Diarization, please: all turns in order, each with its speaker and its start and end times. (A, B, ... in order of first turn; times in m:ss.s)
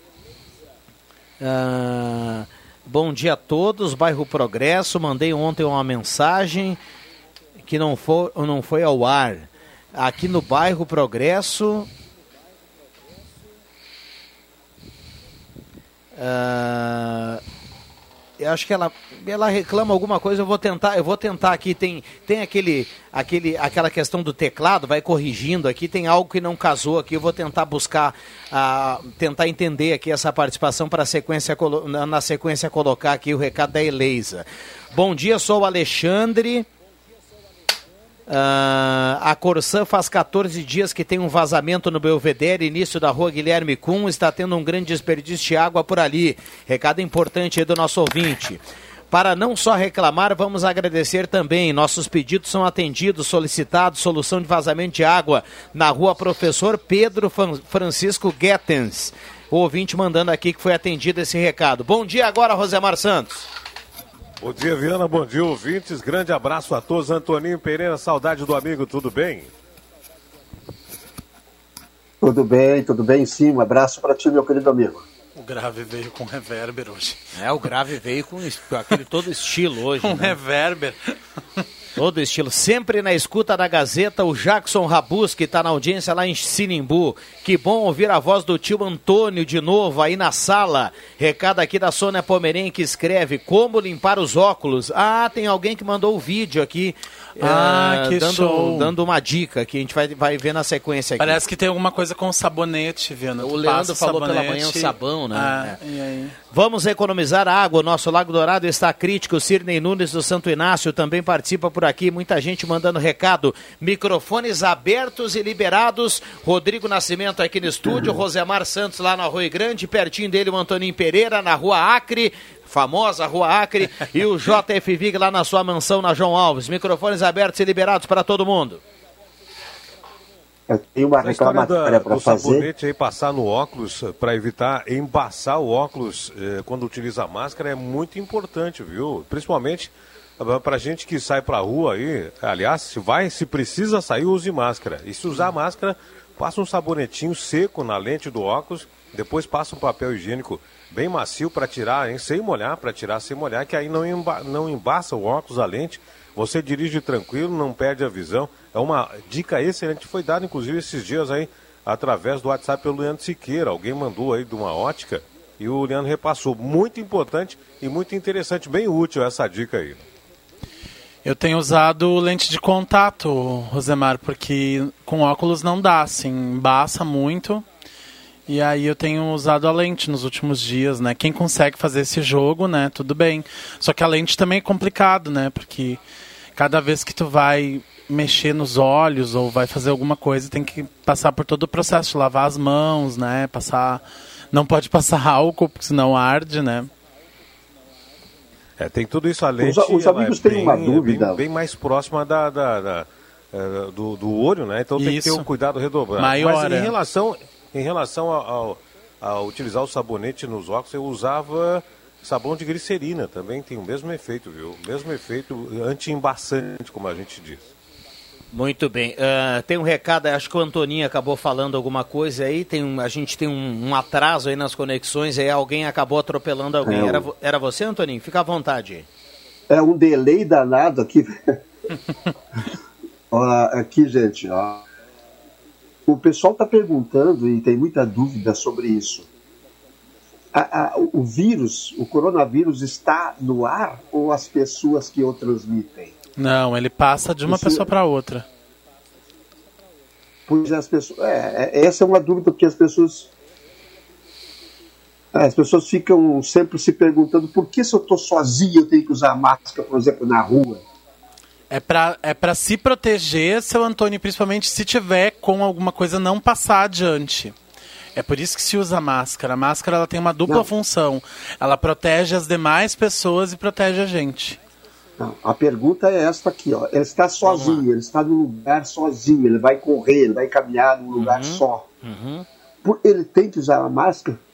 0:01.4-0:06.8 A
0:07.6-0:11.9 A
0:16.2-0:17.4 A
0:18.4-0:36.7 A
0:38.3-1:03.4 A
1:04.4-1:09.5 B
1:12.2-1:15.0 C
1:15.4-1:17.2 D
1:17.4-1:20.4 A
1:20.0-1:21.6 D
1:22.0-1:41.4 A
1:37.4-1:38.9 D
1:41.2-1:46.4 D
1:43.4-1:45.8 A
1:46.5-2:08.8 A
2:10.7-2:12.7 C
2:11.2-2:50.0 B
2:51.2-2:57.6 D
2:58.5-3:06.0 D
3:06.6-3:16.9 D
3:18.8-3:37.7 B
3:19.6-3:21.4 C
3:25.0-3:25.5 D
3:26.2-3:26.9 D
3:38.5-3:49.1 A
3:46.8-3:47.3 C
3:49.7-3:51.6 C
3:53.3-3:54.8 C
3:56.1-3:59.3 C
4:00.5-4:06.1 C
4:06.4-4:08.5 D
4:07.5-4:07.9 C
4:10.5-4:13.3 C
4:15.3-4:20.8 C
4:21.7-4:27.6 D
4:28.2-4:34.6 D
4:35.2-4:41.9 C
4:37.4-4:37.8 A
4:41.2-4:42.5 A
4:42.8-4:44.4 C